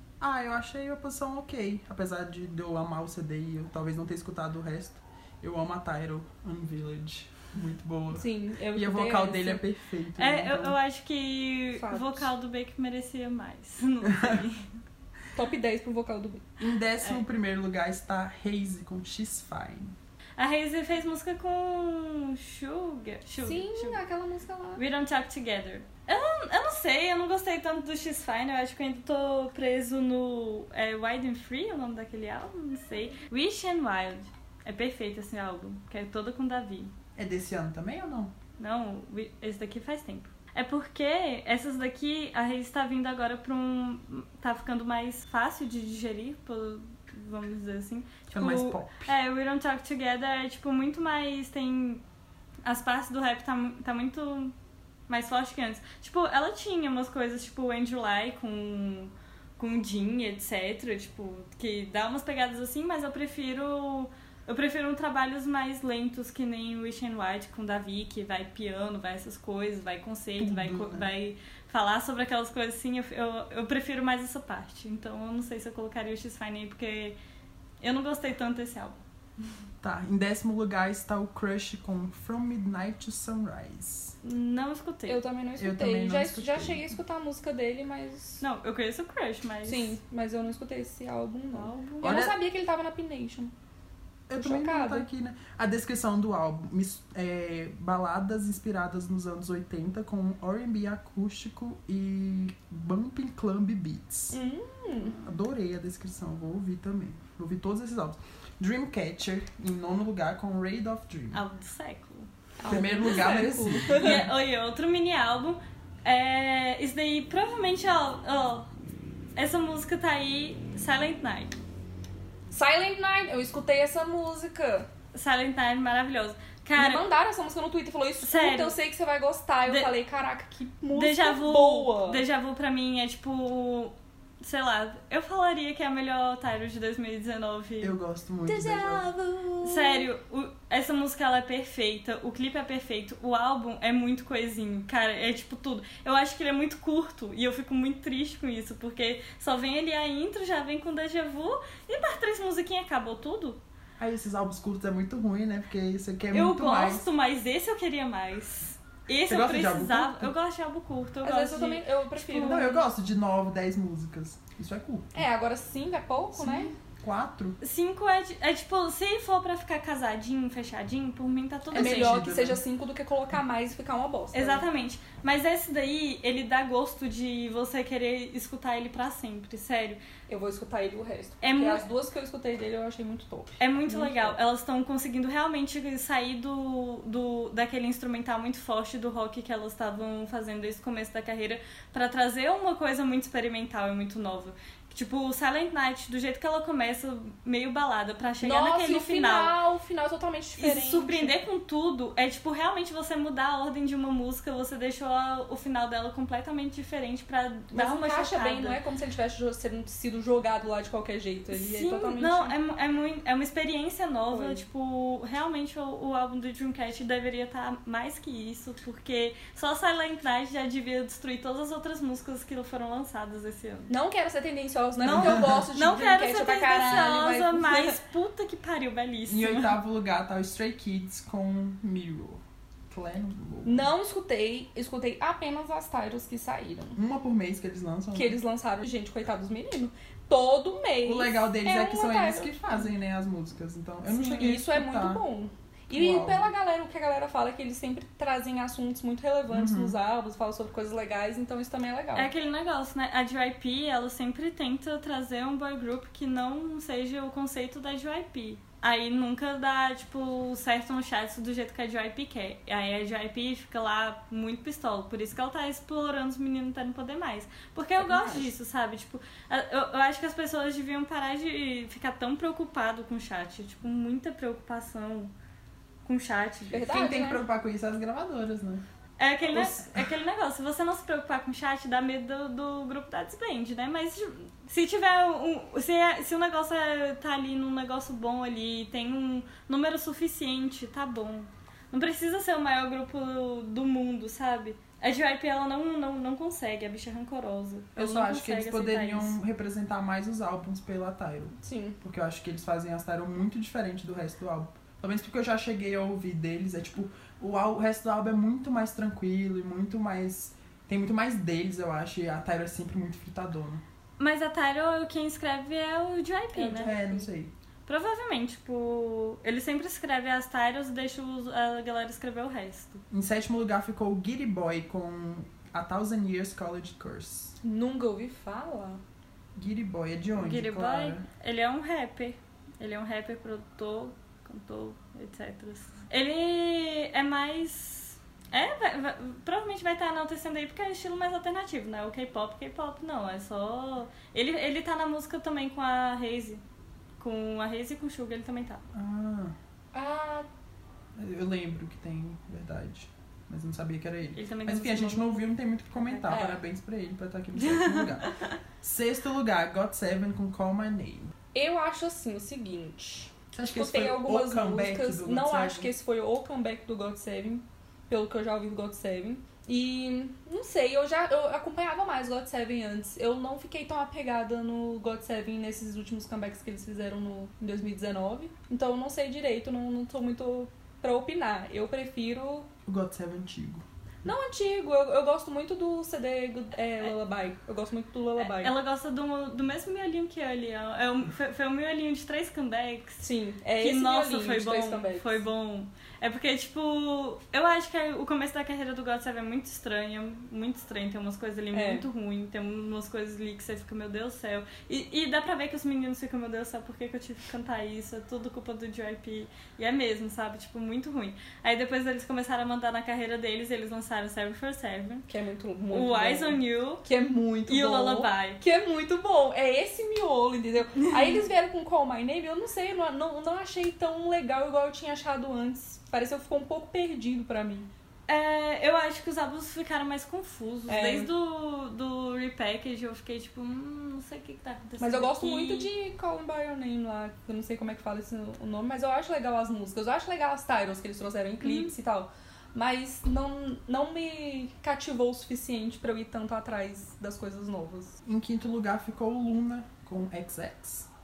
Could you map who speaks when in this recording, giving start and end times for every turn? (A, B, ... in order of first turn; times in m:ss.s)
0:00.2-0:10.8 A
0:08.1-0:09.6 B
0:10.2-0:14.7 C
0:11.8-0:12.3 B
0:14.1-0:14.4 A
0:15.4-0:16.5 B
0:16.6-0:20.0 A
0:20.4-0:24.0 C
0:23.4-0:24.8 B
0:24.8-0:36.9 C
0:37.2-0:38.3 A
0:38.6-0:52.0 C
0:48.3-0:49.1 A
0:52.6-0:54.5 C
0:55.1-1:17.2 C
1:10.4-1:11.1 A
1:17.8-1:19.0 C
1:19.8-1:24.2 A
1:24.2-1:25.2 C
1:25.1-1:28.4 B
1:25.6-1:26.8 A
1:28.4-1:30.0 C
1:29.7-1:33.5 B
1:31.5-1:32.2 C
1:32.0-1:32.4 A
1:34.3-1:44.4 A
1:34.4-1:35.1 B
1:44.3-1:45.2 B
1:45.1-1:51.4 A
1:51.3-1:52.3 C
1:52.6-1:54.2 B
1:52.7-1:54.3 A
1:53.9-1:58.7 C
1:59.4-2:01.6 C
2:02.5-2:04.9 B
2:05.1-2:07.1 C
2:06.8-2:12.2 B
2:08.2-2:08.8 C
2:09.7-2:09.9 C
2:10.9-2:18.0 C
2:17.8-2:19.1 A
2:18.5-2:20.1 B
2:19.6-2:33.6 C
2:34.0-2:37.0 A
2:36.3-2:42.6 C
2:39.3-2:40.3 A
2:41.2-2:42.8 B
2:42.3-2:45.2 A
2:45.2-2:46.7 B
2:46.4-2:47.6 A
2:47.6-2:52.2 C
2:51.7-2:52.6 A
2:51.7-2:54.7 B
2:54.3-3:00.0 C
3:00.3-3:04.4 B
3:01.4-3:01.9 C
3:03.6-3:19.6 C
3:18.4-3:21.4 B
3:20.6-3:28.8 C
3:27.7-3:32.6 B
3:31.5-3:43.9 C
3:34.3-3:34.6 B
3:43.9-3:48.0 B
3:45.0-3:49.8 C
3:49.3-3:53.9 A
3:53.6-3:57.0 B
3:57.0-3:58.4 A
3:58.1-4:02.9 B
4:01.0-4:05.2 A
4:04.0-4:12.3 B
4:05.9-4:06.5 A
4:09.5-4:10.0 A
4:12.2-4:35.3 C
4:28.0-4:28.5 B
4:36.0-4:37.0 C
4:36.7-4:37.4 B
4:36.8-4:38.8 A
4:39.2-4:59.4 C
4:39.5-4:40.1 A
4:58.0-5:13.8 A
5:01.6-5:02.0 B
5:14.2-5:16.9 C
5:16.5-5:17.3 B
5:16.8-5:17.5 A
5:17.9-5:23.0 C
5:23.1-5:27.6 A
5:27.6-5:29.0 B
5:29.6-5:31.3 A
5:30.4-5:46.6 C
5:47.2-5:48.8 C
5:48.9-5:49.6 A
5:49.9-5:50.5 B
5:51.2-6:01.3 A
5:54.4-5:56.4 C
5:56.3-5:56.6 B
5:57.6-5:58.5 C
6:01.5-6:22.7 B
6:03.5-6:05.9 A
6:22.9-6:23.8 A
6:24.2-6:28.8 B
6:28.4-6:33.2 C
6:33.2-6:35.4 B
6:33.8-6:55.3 C
6:41.7-6:42.1 B
6:55.3-7:07.9 B
6:55.9-6:57.0 C
6:57.7-6:58.6 C
7:01.0-7:01.4 C
7:08.3-7:15.9 C
7:10.9-7:11.3 B
7:15.0-7:28.2 B
7:21.6-7:21.9 C
7:28.2-7:31.1 A